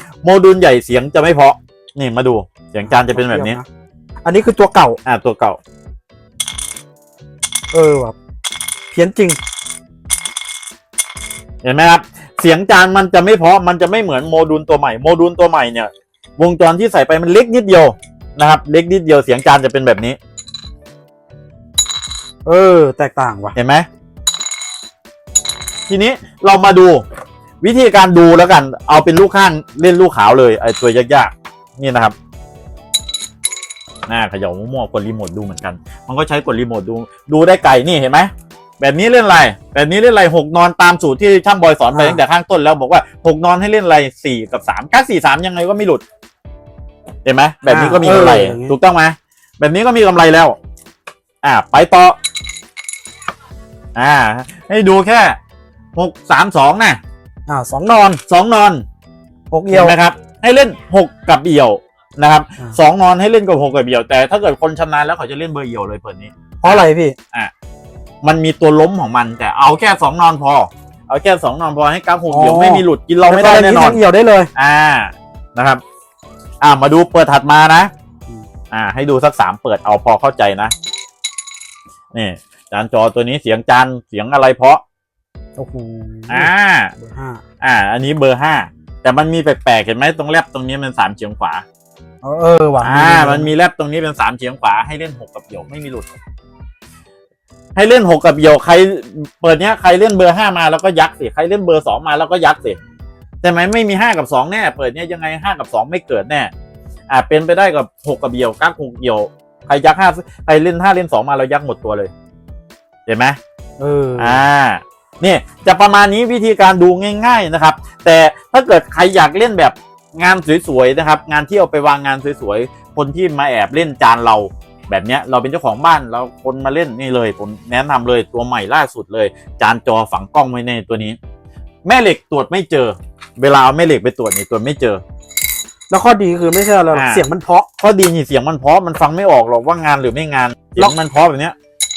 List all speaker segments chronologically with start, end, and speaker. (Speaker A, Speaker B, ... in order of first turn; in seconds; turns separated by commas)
Speaker A: 0.2-3.6, Speaker B: 2.9-3.7, Speaker B: 4.2-5.0, Speaker A: 5.0-5.6, Speaker B: 7.7-8.2, Speaker B: 8.9-9.4, Speaker A: 11.6-20.2, Speaker B: 22.4-23.6, Speaker A: 23.6-23.9, Speaker A: 25.9-27.0, Speaker A: 27.6-32.1, Speaker A: 34.1-46.0, Speaker B: 41.9-42.2, Speaker A: 47.2-50.6, Speaker B: 47.7-48.7, Speaker A: 51.4-52.2, Speaker A: 54.0-55.4, Speaker A: 56.0-57.0, Speaker B: 57.5-58.2, Speaker A: 58.3-58.9, Speaker B: 59.5-60.0, Speaker A: 59.7-67.5, Speaker B: 66.6-67.2, Speaker A: 68.2-74.0, Speaker B: 72.3-74.5, Speaker A: 74.5-75.8, Speaker A: 76.6-77.9, Speaker A: 78.7-80.7, Speaker A: 82.1-84.8, Speaker B: 85.6-87.4, Speaker A: 86.3-86.9, Speaker A: 87.6-91.6, Speaker B: 92.2-93.5, Speaker A: 92.8-96.1, Speaker A: 97.8-102.8, Speaker A: 103.4-106.5, Speaker A: 107.1-112.1, Speaker A: 113.1-113.4, Speaker B: 113.8-114.4, Speaker A: 114.2-131.2, Speaker A: 131.8-135.0, Speaker B: 135.9-137.7, Speaker A: 136.9-137.2, Speaker A: 137.8-141.6